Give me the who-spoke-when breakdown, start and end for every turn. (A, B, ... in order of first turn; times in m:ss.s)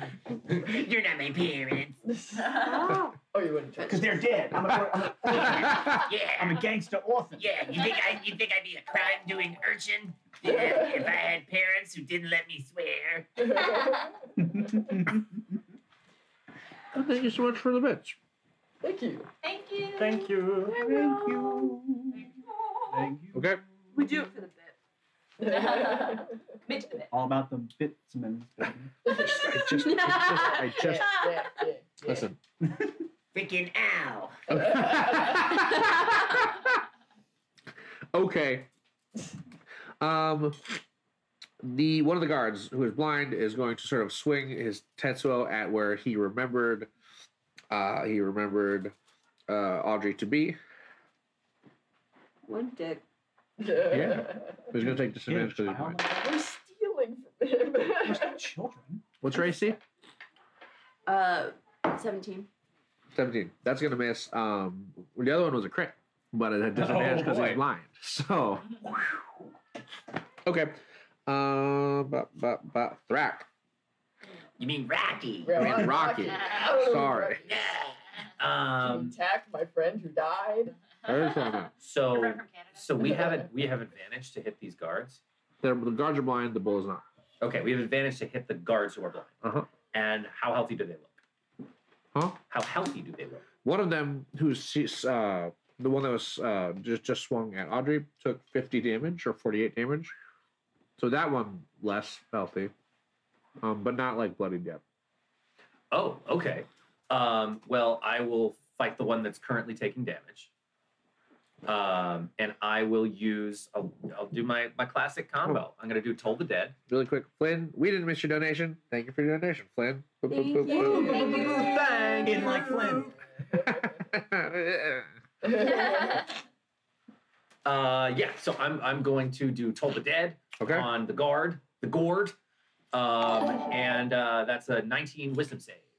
0:00.5-0:02.0 A
0:02.0-0:04.7 B
0:02.6-0:03.2 C
0:03.8-0:05.8 D
0:05.3-0:06.1 E
0:05.3-0:06.7 A
0:05.3-0:05.9 B
0:06.4-0:07.4 D
0:07.4-0:13.5 A
0:10.4-0:11.2 B
0:13.4-0:14.2 B
0:13.8-0:14.1 F
0:14.4-0:15.4 D
0:16.9-0:18.2 E
0:18.8-0:19.3 B
0:19.4-0:20.4 F
0:20.0-0:22.3 D
0:20.7-0:21.7 C
0:22.1-0:23.2 F
0:22.9-0:23.6 D
0:23.3-0:23.6 E
0:23.9-0:24.8 C
0:25.4-0:26.4 B
0:25.5-0:27.1 F
0:27.1-0:28.9 D
0:28.6-0:31.1 E
0:29.1-0:29.7 B
0:29.4-0:31.5 C
0:30.4-0:32.3 B
0:32.1-0:32.4 E
0:33.3-0:34.6 A
0:34.5-0:36.7 E
0:34.6-0:35.5 B
0:38.1-0:38.7 E
0:40.0-0:40.8 E
0:41.6-0:46.9 E
0:47.7-0:48.9 E
0:49.5-0:50.6 E
0:52.5-0:53.0 C
0:53.6-0:54.7 B
0:53.9-0:56.0 E
0:54.8-0:56.3 D
0:56.1-0:58.4 B
0:58.0-0:59.0 D
0:59.2-0:59.8 E
1:01.1-1:02.5 C
1:03.1-1:09.1 E
1:06.8-1:07.6 D
1:06.9-1:07.5 G
1:10.4-1:13.5 E
1:14.6-1:15.7 A
1:15.5-1:17.6 B
1:15.5-1:17.4 E
1:16.2-1:16.8 F
1:17.4-1:18.0 A
1:18.4-1:19.2 G
1:18.8-1:20.8 B
1:21.0-1:23.2 F
1:21.0-1:21.7 E
1:21.8-1:25.2 G
1:23.0-1:23.4 B
1:25.6-1:27.0 E
1:27.4-1:29.4 G
1:29.4-1:29.7 E
1:29.9-1:31.2 G
1:32.1-1:32.4 E
1:32.5-1:33.5 G
1:33.6-1:40.1 E
1:41.0-1:42.7 E
1:43.6-1:44.8 E
1:45.9-1:50.5 G
1:51.6-1:56.8 G
1:56.9-2:01.5 E
2:00.3-2:01.9 C
2:00.7-2:03.2 D
2:01.1-2:03.0 G
2:02.8-2:04.1 B
2:03.7-2:05.1 E
2:05.4-2:06.3 B
2:05.6-2:06.3 F
2:07.6-2:12.4 G
2:10.6-2:10.9 E
2:12.9-2:15.9 G